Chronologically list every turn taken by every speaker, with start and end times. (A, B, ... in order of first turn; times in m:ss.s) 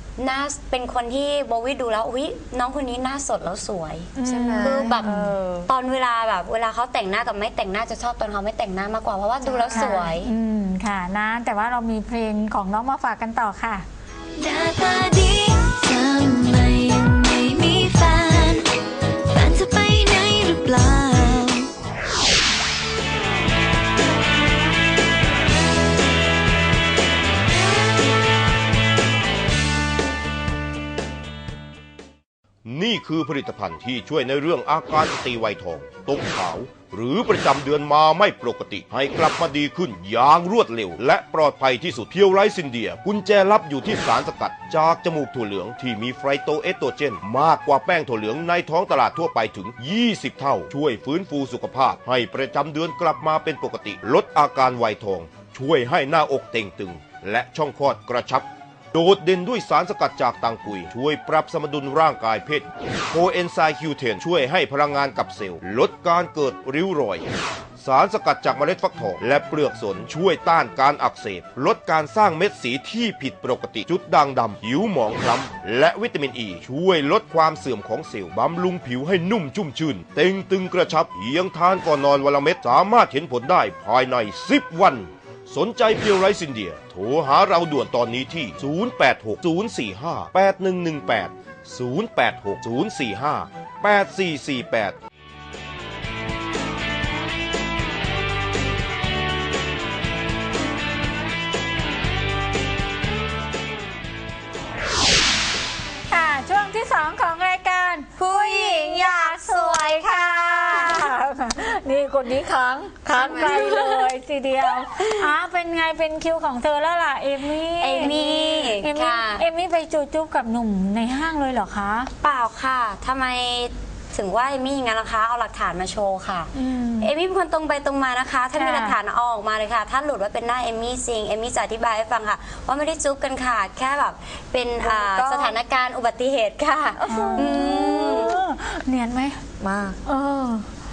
0:00.2-0:05.1 A
0:04.2-0:05.3 B
0:04.2-0:05.7 C
0:05.7-0:10.3 A
0:09.4-0:10.1 C
0:09.7-0:13.8 B
0:14.4-0:18.7 D
0:19.3-0:21.6 D
0:32.7-1:07.3 E
1:07.8-1:35.0 E
1:46.1-2:02.1 B
1:48.2-1:50.0 A
1:53.1-1:53.8 C
1:57.8-1:59.4 A
2:02.2-2:18.4 A
2:06.6-2:07.1 B
2:08.6-2:09.0 B
2:14.8-2:15.6 C
2:17.1-2:19.4 B
2:17.1-2:17.5 C
2:19.6-2:20.0 C
2:20.0-2:20.7 B